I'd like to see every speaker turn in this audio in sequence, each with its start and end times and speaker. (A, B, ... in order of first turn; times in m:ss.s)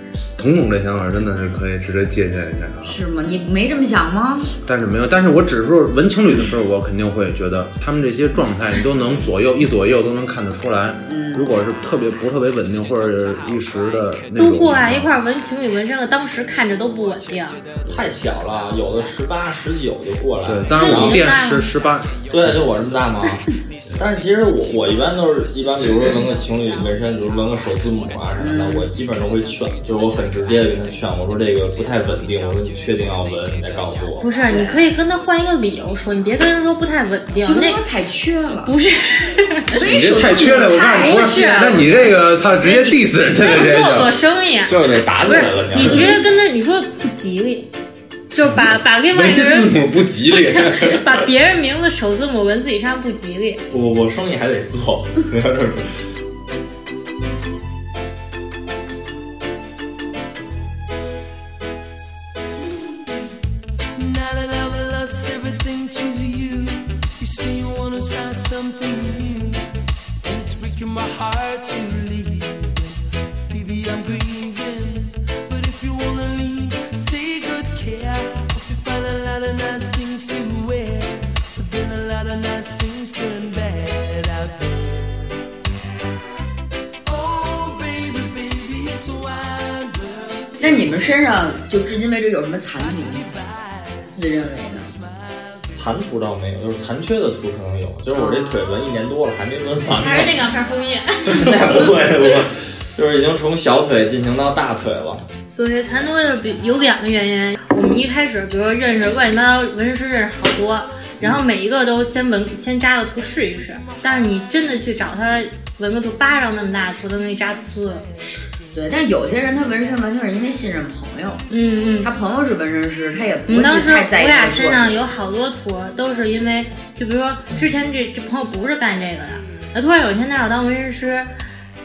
0:00.4-0:03.0 A
0:02.8-0:04.5 B
0:04.6-0:15.1 A
0:11.1-0:11.5 B
0:14.4-0:17.6 C
0:17.9-0:21.2 D
0:20.4-0:22.6 A
0:20.7-0:21.7 C
0:22.3-0:34.3 D
0:28.4-0:28.9 B
0:34.2-0:37.8 C
0:34.4-0:34.9 B
0:37.4-0:38.8 B
0:38.7-0:39.8 C
0:39.7-0:42.1 B
0:39.8-0:44.2 A
0:40.5-0:44.8 C
0:44.7-0:46.2 D
0:45.7-0:47.7 C
0:45.8-0:46.1 A
0:48.3-0:53.6 C
0:48.3-0:51.3 A
0:53.7-0:55.9 D
1:04.0-1:09.7 E
1:10.2-1:25.2 E
1:27.1-1:31.0 E
1:30.6-1:33.4 B
1:34.2-1:34.9 B
1:35.7-1:40.4 D
1:38.1-1:38.6 B
1:40.0-1:41.8 C
1:41.2-1:45.2 D
1:41.4-1:41.9 B
1:45.5-1:58.1 C
1:58.7-2:01.4 B
2:01.5-2:02.1 C
2:02.0-2:05.0 B
2:03.5-2:11.3 C